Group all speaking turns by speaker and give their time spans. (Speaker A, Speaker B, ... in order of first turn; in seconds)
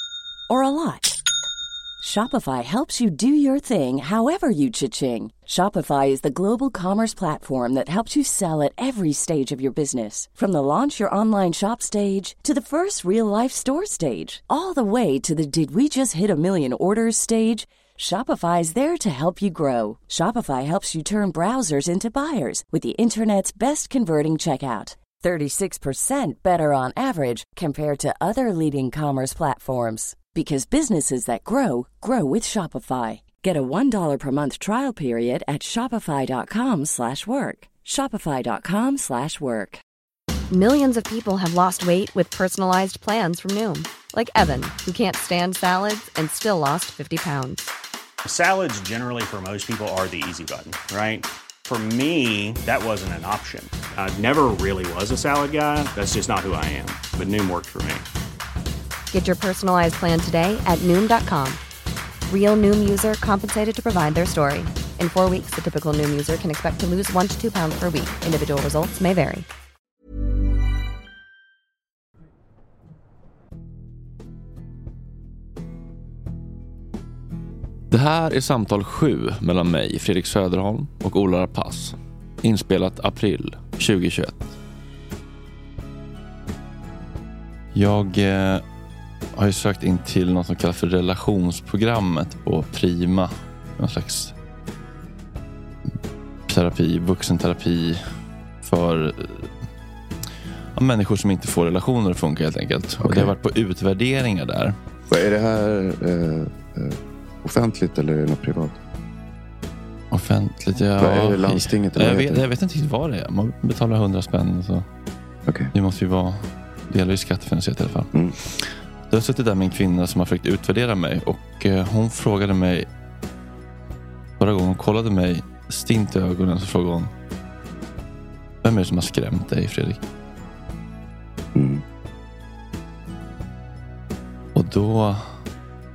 Speaker A: 0.5-1.2, 2.0-39.8
Speaker B: 40.5-47.7, 59.1-61.6, 62.3-69.5
Speaker C: 48.2-58.0
Speaker D: 77.9-84.5, 87.7-88.6, 89.3-94.3, 96.5-99.5, 100.8-104.8, 110.1-114.8, 115.7-122.9, 124.4-127.1, 128.6-130.0, 134.5-135.4
Speaker E: 103.0-103.3, 105.1-108.8, 111.0-112.4, 131.5-131.8